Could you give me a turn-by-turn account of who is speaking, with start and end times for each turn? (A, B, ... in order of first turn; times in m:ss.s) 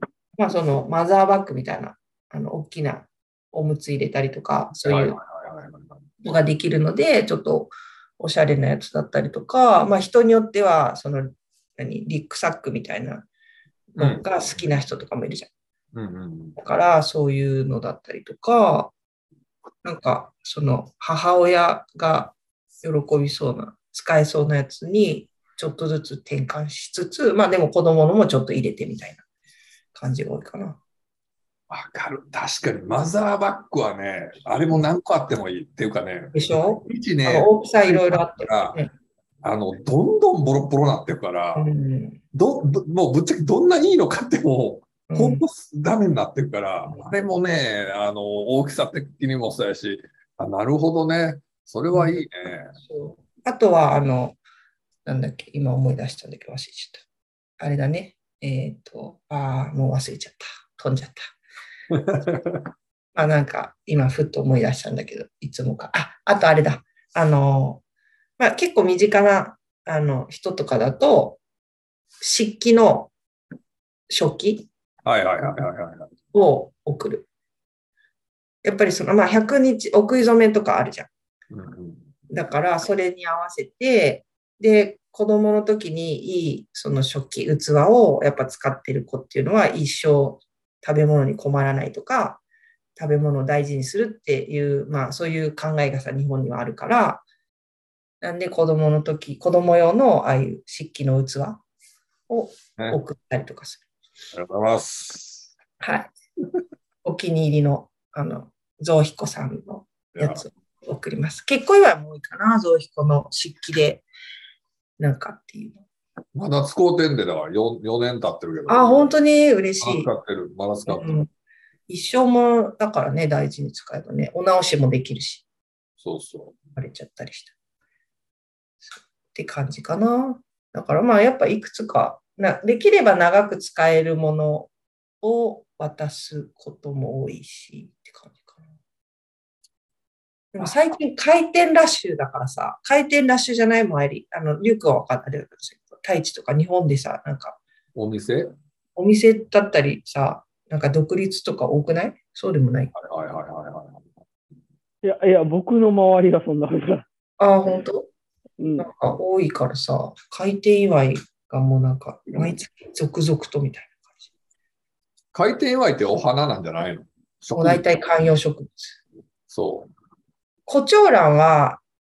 0:00.4-0:05.2 A
0:04.8-0:06.1 B
0:06.2-0:13.3 A
0:13.9-0:15.5 A
0:14.0-0:14.3 B
0:15.9-0:16.6 B
0:16.6-0:18.9 A
0:19.8-0:29.2 A
0:29.9-0:30.8 A
0:31.7-0:38.8 B
0:36.3-0:38.9 A
0:39.4-0:41.7 B
0:41.5-0:42.2 A
0:42.3-0:52.7 B
0:45.1-0:45.4 A
0:51.9-0:52.2 A
0:52.8-0:54.4 A
0:55.0-0:57.0 A
0:57.6-1:01.3 A
1:01.9-1:02.7 B
1:03.1-1:07.8 A
1:08.4-1:11.4 A
1:12.2-1:13.1 A
1:14.1-1:14.7 A
1:15.0-1:16.1 B
1:16.3-1:17.3 A
1:18.6-1:21.1 A
1:21.5-1:22.1 B
1:22.3-1:32.4 A
1:33.0-1:37.2 A
1:38.2-1:41.6 A
1:42.3-1:43.8 A
1:44.3-1:45.5 B
1:45.8-1:46.1 A
1:47.0-1:54.1 A
1:50.2-1:50.4 B
1:55.0-1:55.8 A
1:56.3-1:59.1 B
1:58.7-2:00.1 A
1:59.8-2:01.2 B
2:00.9-2:01.3 A
2:01.9-2:05.4 A
2:06.0-2:06.6 B
2:06.8-2:07.5 A
2:08.9-2:14.7 A
2:15.2-2:18.6 A
2:20.5-2:27.6 A
2:27.9-2:28.5 B
2:29.0-2:32.9 A
2:32.9-2:34.1 B
2:35.0-2:37.0 C
2:37.4-2:38.1 A
2:38.6-2:38.9 C
2:38.8-2:44.0 A
2:45.3-2:47.8 B
2:47.6-2:49.0 A
2:49.5-2:49.9 B
2:50.7-2:51.8 A